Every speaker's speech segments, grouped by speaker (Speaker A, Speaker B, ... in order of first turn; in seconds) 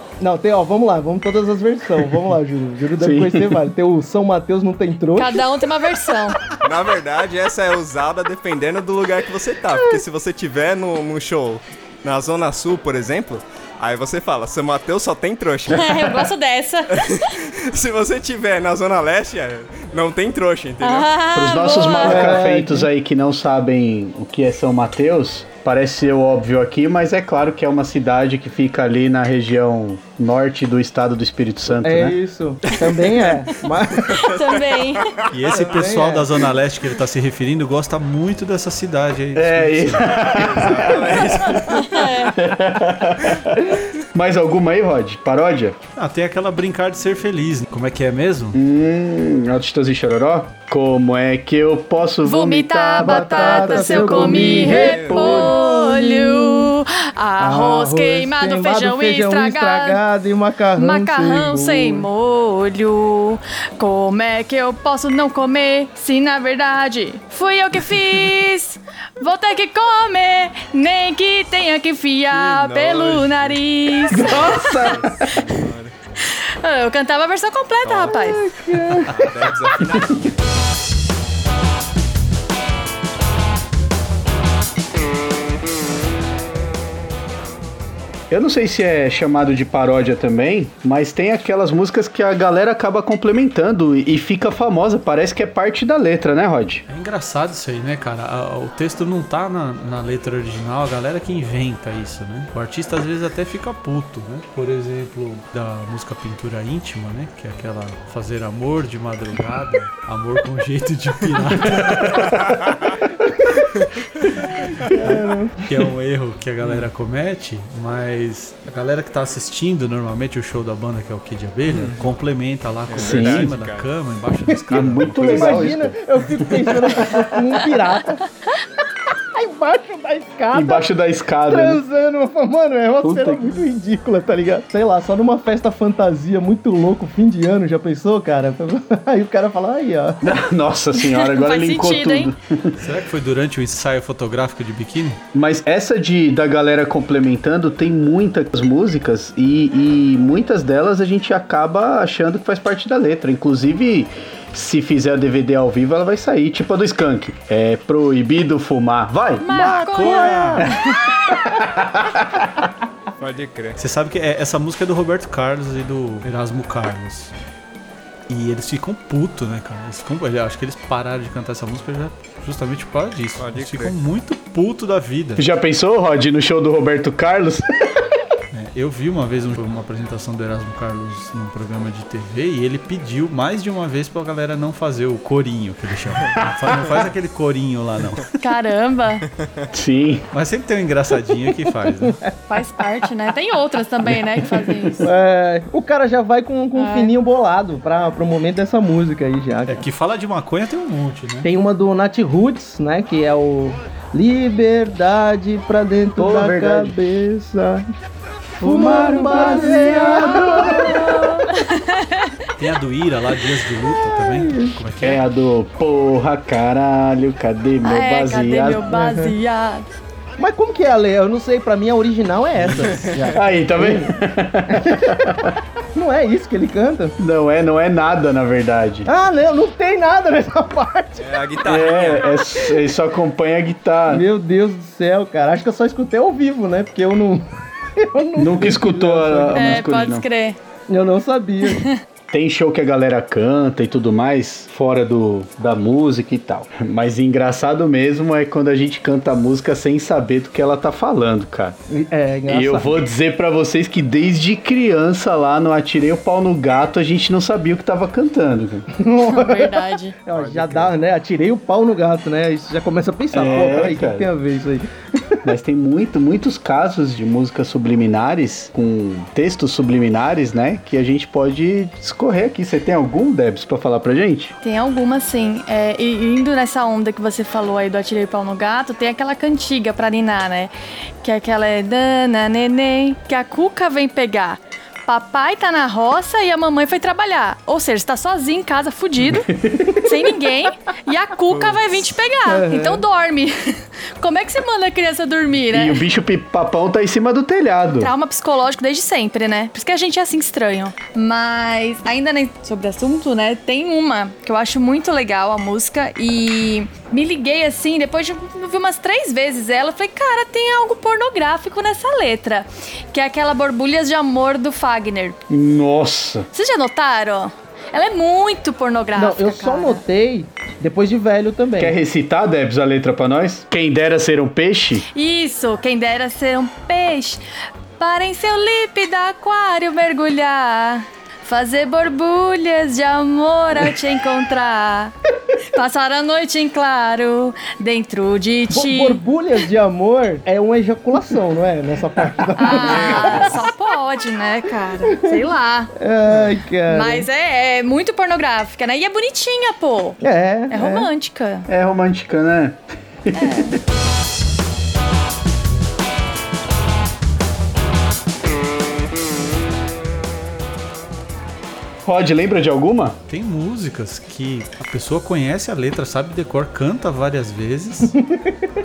Speaker A: 0.2-5.4, 22.1-22.9, 31.8-34.3, 35.5-36.4, 53.0-56.7, 57.4-62.1, 78.1-79.3, 114.8-115.7, 124.5-128.2, 129.3-130.9, 131.5-140.2, 159.6-160.7, 195.0-199.9, 201.4-207.9, 208.6-211.4, 214.1-214.8, 218.9-219.3, 220.4-224.2, 224.7-227.2, 229.1-231.3, 234.1-239.8, 240.9-241.8, 251.9-253.0, 259.0-265.4, 292.5-293.1, 319.1-321.9, 338.7-343.7, 346.0-347.3, 350.2-351.1, 368.2-368.5
Speaker B: 3.0-3.6, 21.3-32.2, 39.4-41.7, 42.3-45.8, 48.5-55.5, 74.1-75.3, 88.3-96.8, 111.8-112.5, 123.0-123.5, 124.7-127.4, 130.5-131.8, 133.0-133.6, 140.2-142.8, 145.3-159.7, 161.3-162.7, 175.4-177.9, 189.7-190.3, 206.2-207.0, 208.6-211.3, 215.0-218.9, 223.3-225.6, 227.2-229.1, 231.6-234.3, 238.4-240.2, 242.3-251.8, 252.5-258.9, 263.3-264.3, 265.4-274.5, 289.2-290.1, 295.7-298.1, 315.5-316.5, 321.8-325.1, 351.7-353.8, 362.1-363.2
Speaker C: 5.2-6.4, 15.7-17.4, 20.8-22.4, 34.0-35.2, 41.7-42.4, 52.2-60.0, 60.8-74.9, 76.2-78.4, 140.9-142.3, 159.4-161.2, 188.4-189.3, 192.5-195.1, 196.8-197.1, 210.7-212.3, 217.8-219.9, 239.5-240.6, 241.6-242.0, 259.2-260.1, 274.6-280.7, 281.2-296.0, 298.0-315.4, 316.5-320.0, 325.1-327.4, 328.0-339.2, 342.6-345.9, 346.9-351.7, 353.3-353.8
Speaker D: 6.6-16.1, 16.9-21.1, 32.7-33.4, 34.1-35.3, 40.2-42.1, 54.5-55.5, 72.3-75.9, 77.8-78.2, 79.0-80.3, 121.7-122.0, 122.9-123.9, 163.2-163.8, 173.4-173.9, 223.0-223.4, 231.2-232.3, 260.3-260.9, 263.4-263.9, 291.5-292.0, 342.9-343.3
Speaker E: 35.3-40.1, 46.0-48.6, 96.9-112.4, 114.9-125.7, 142.8-145.2, 159.5-160.7, 163.8-167.3, 168.3-175.5, 178.5-188.4, 190.3-192.2, 199.7-201.5, 212.6-215.2, 222.6-223.0, 363.3-368.1